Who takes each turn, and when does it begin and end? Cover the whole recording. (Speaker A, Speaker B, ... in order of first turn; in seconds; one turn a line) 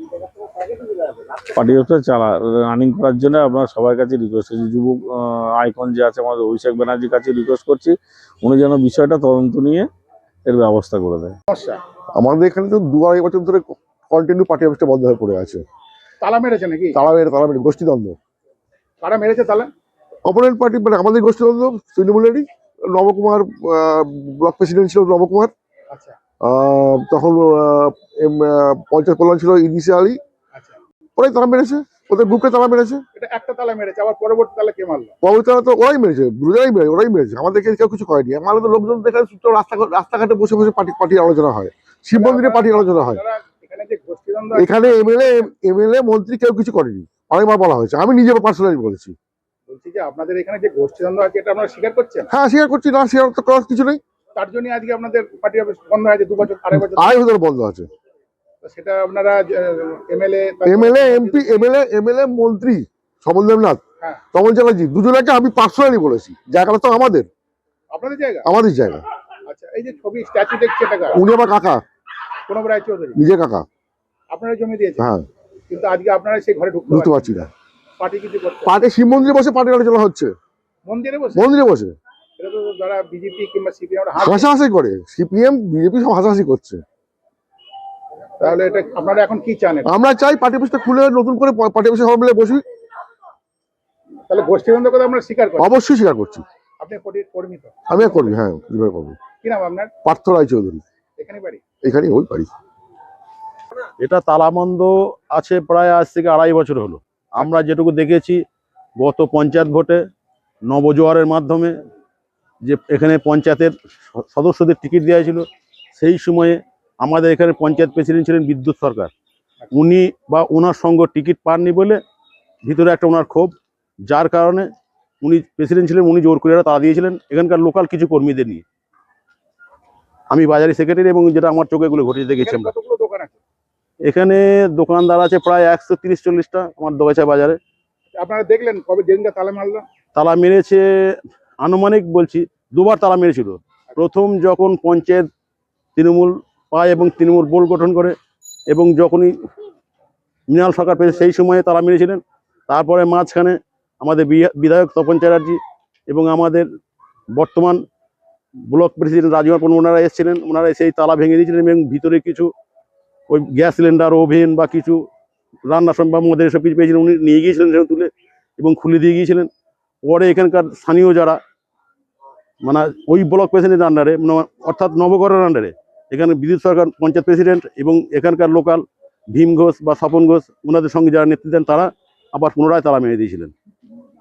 Speaker A: 1.4-9.8
Speaker A: 10.4-11.3
Speaker B: 11.5-11.8
Speaker C: 12.2-15.6
Speaker B: 16.2-17.0
Speaker C: 17.0-18.2
Speaker B: 19.0-19.7
Speaker C: 20.2-25.5
Speaker B: 25.9-26.2
Speaker C: 26.4-30.2
Speaker B: 30.5-30.8
Speaker C: 31.2-33.0
Speaker B: 33.1-35.1
Speaker C: 35.2-43.2
Speaker B: 42.1-45.5
Speaker C: 44.6-49.1
Speaker B: 49.7-52.3
Speaker C: 52.3-54.0
Speaker B: 54.3-57.2
Speaker C: 56.8-57.9
Speaker B: 58.6-61.7
Speaker C: 60.7-63.8
Speaker C: 64.3-67.3
Speaker B: 67.9-68.5
Speaker C: 68.5-69.0
Speaker B: 69.5-71.2
Speaker C: 71.2-71.8
Speaker B: 72.5-73.2
Speaker C: 73.2-73.7
Speaker B: 74.3-75.0
Speaker C: 75.0-75.3
Speaker B: 75.7-77.4
Speaker C: 76.9-77.5
Speaker B: 78.0-78.8
Speaker C: 78.7-80.3
Speaker B: 80.8-81.5
Speaker C: 81.4-82.0
Speaker B: 82.4-84.5
Speaker C: 84.2-86.8
Speaker B: 88.4-89.9
Speaker C: 89.9-92.6
Speaker B: 94.3-95.7
Speaker C: 95.6-96.4
Speaker B: 96.8-98.4
Speaker C: 97.9-99.2
Speaker B: 99.4-99.9
Speaker C: 100.0-100.8
Speaker B: 101.2-101.6
Speaker C: 101.8-102.5
Speaker D: 104.0-108.4
Speaker D: 109.0-110.0
Speaker D: 110.7-111.7
Speaker D: 112.7-115.5
Speaker D: 116.0-119.1
Speaker D: 119.7-122.0
Speaker D: 122.6-123.5
Speaker D: 124.1-124.7
Speaker D: 125.2-128.6
Speaker D: 130.3-132.7
Speaker B: 132.4-133.4
Speaker D: 134.0-137.6
Speaker B: 138.1-139.9
Speaker D: 140.1-140.8
Speaker D: 141.6-145.2
Speaker D: 145.9-148.2
Speaker D: 148.7-149.3
Speaker D: 150.5-156.7
Speaker D: 157.4-157.8
Speaker D: 158.7-162.5
Speaker D: 163.3-165.0
Speaker D: 165.7-169.5
Speaker D: 170.0-171.4
Speaker D: 172.7-178.8
Speaker D: 179.3-183.5